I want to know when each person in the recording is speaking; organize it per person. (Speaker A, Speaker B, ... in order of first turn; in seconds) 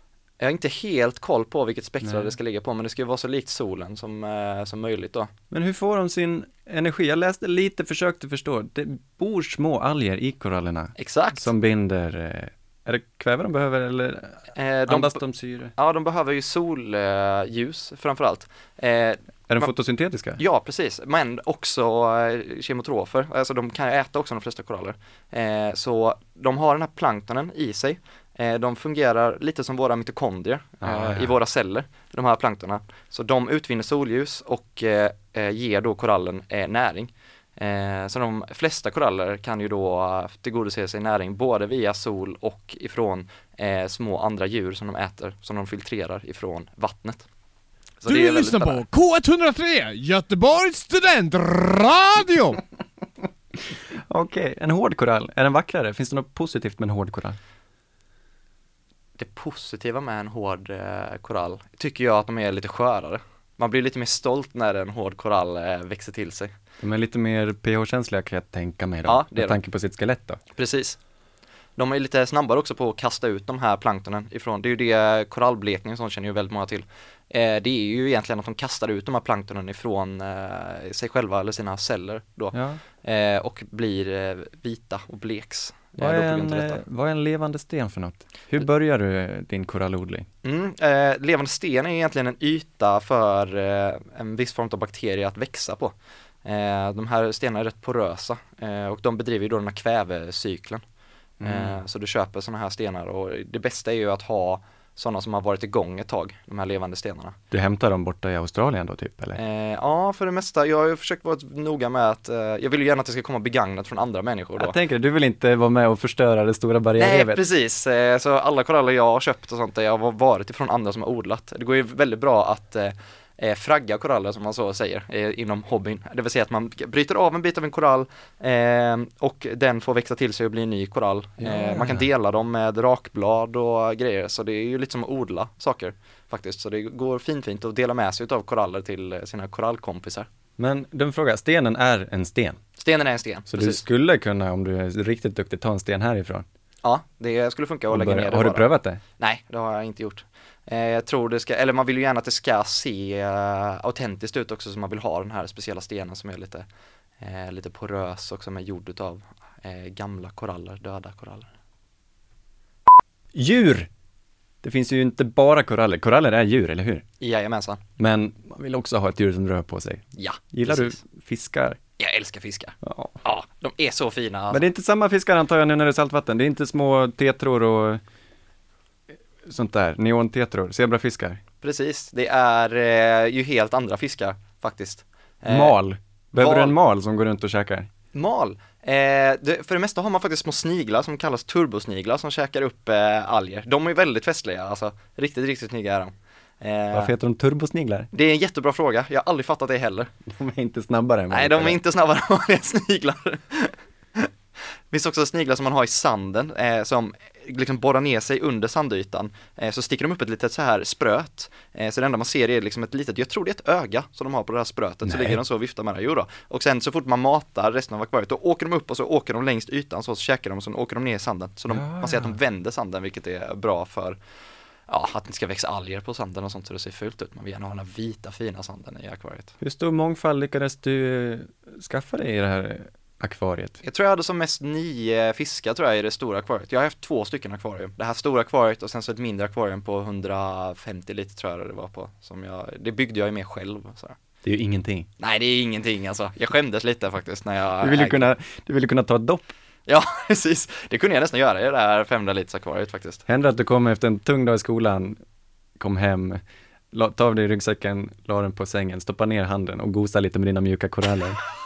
Speaker A: 0.4-5.3, 11.0-11.5, 14.5-15.2, 15.8-19.7, 20.4-47.3, 48.0-48.9, 59.2-66.5, 69.0-69.6, 70.5-71.0, 71.8-86.8, 90.4-100.8, 101.4-107.4, 109.4-114.8, 117.0-140.3, 142.8-143.8, 146.8-148.7, 149.2-156.7, 157.2-161.5, 167.2-167.8, 170.2-171.0, 172.0-174.6, 181.6-185.8, 186.4-186.8, 188.1-197.1, 198.1-200.1, 201.3-204.3, 204.9-224.2, 224.9-229.5, 233.8-244.2, 245.2-248.3, 249.9-253.2
Speaker B: 2.0-2.3, 5.5-15.7, 19.5-20.4, 30.8-31.4, 54.1-57.4, 66.8-70.4, 82.5-82.8, 86.0-90.3, 101.4-101.8, 107.5-109.4, 114.6-117.4, 131.4-132.1, 140.6-142.6, 143.5-146.4, 147.9-149.0, 163.3-163.9, 164.6-167.1, 168.0-171.8, 172.8-173.2, 174.5-178.0, 179.5-181.4, 185.5-187.9, 196.9-198.1, 200.3-201.8, 215.1-215.4, 221.7-222.4, 229.6-233.8, 244.4-245.1, 247.8-249.5, 253.3-255.2, 255.8-256.4, 256.9-261.4
Speaker C: 48.2-52.6